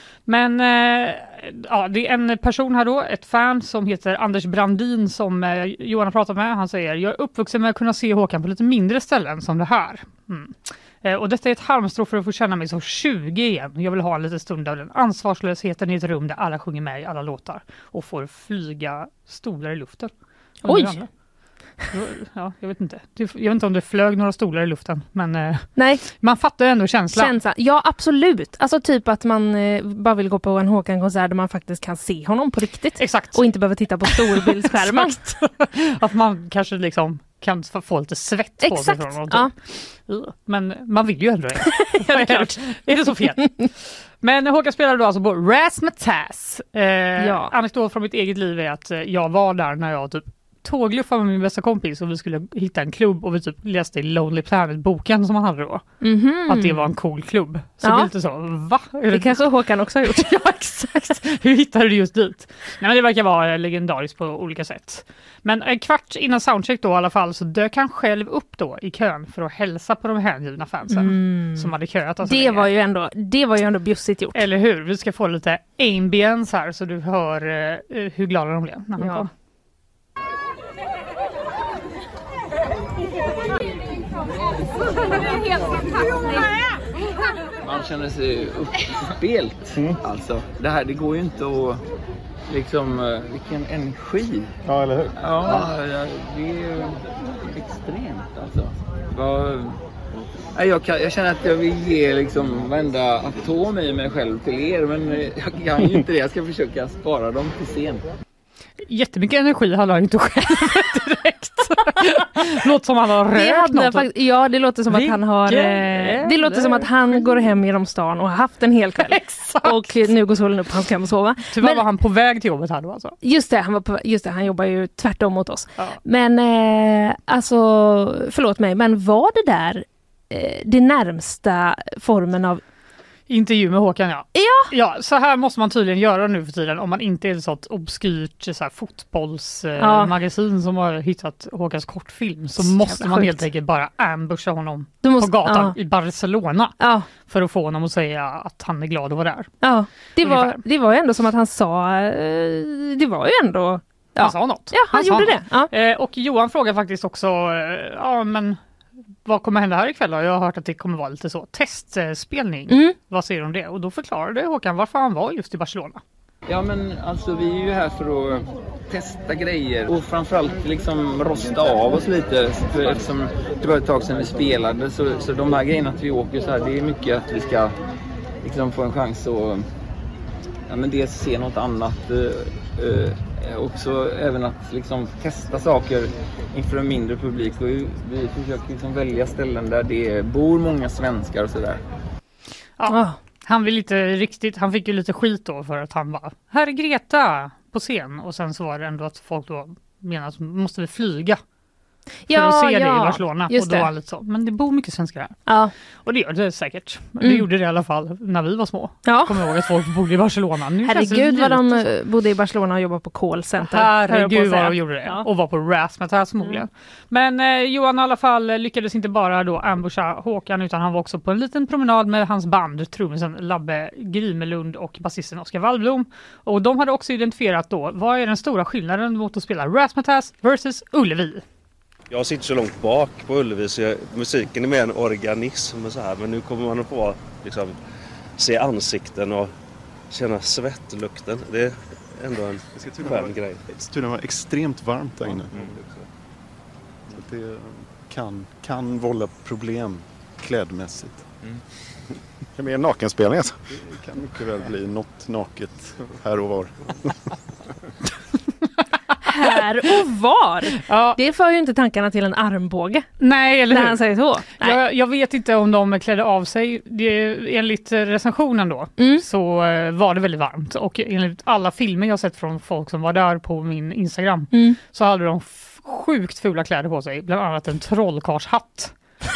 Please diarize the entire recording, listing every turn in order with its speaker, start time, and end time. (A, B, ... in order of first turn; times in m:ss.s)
0:00.3-0:21.1 A
0:20.6-0:21.0 B
0:21.9-0:27.3 A
0:25.8-0:26.0 B
0:27.1-0:35.2 B
0:33.0-0:33.4 A
0:34.0-0:55.8 A
0:38.6-0:39.5 B
0:41.6-0:42.6 B
0:47.2-0:47.5 B
0:56.0-0:56.9 B
0:56.5-0:59.5 A
0:57.8-0:58.1 B
0:59.1-1:00.3 B
1:00.0-1:12.7 A
1:10.9-1:14.4 B
1:14.3-1:19.3 A
1:19.0-1:19.3 B
1:27.6-1:31.8 C
1:32.5-1:34.6 C
1:34.7-1:35.1 D
1:35.1-1:39.8 C
1:40.5-1:48.1 C
1:48.8-1:54.1 A
1:53.3-2:01.8 B
1:54.9-1:57.5 A
1:59.0-2:00.0 A
2:01.5-2:03.1 A
2:03.2-2:12.6 B
2:13.3-2:29.5 A
2:14.3-2:14.7 B
2:19.8-2:20.1 B
2:22.6-2:23.4 B
2:25.0-2:25.8 B
2:26.8-2:27.1 B
2:29.6-2:35.7 B
2:30.2-2:30.6 A
2:34.2-2:38.6 A
2:39.2-2:46.0 A
2:42.7-2:42.9 B
2:46.5-2:57.7 C
2:58.4-2:59.7 C
3:00.7-3:11.8 C
3:12.8-3:21.4 A
3:12.9-3:13.2 B
3:22.3-3:23.9 B
3:22.3-3:25.4 A
3:25.5-3:25.7 B
3:26.0-3:31.8 A
3:27.2-3:27.5 B
3:29.0-3:29.4 B
3:30.8-3:35.2 B
3:33.6-3:51.4 A
3:52.1-3:57.8 E
3:58.4-3:59.5 E
4:00.1-4:03.6 E
4:02.7-4:05.8 D
4:07.1-4:11.3 D
4:12.5-4:17.3 D
4:19.2-4:23.1 B
4:20.8-4:21.2 A
4:23.2-4:38.9 A
4:23.7-4:24.8 B
4:29.0-4:29.2 B
4:34.5-4:34.8 B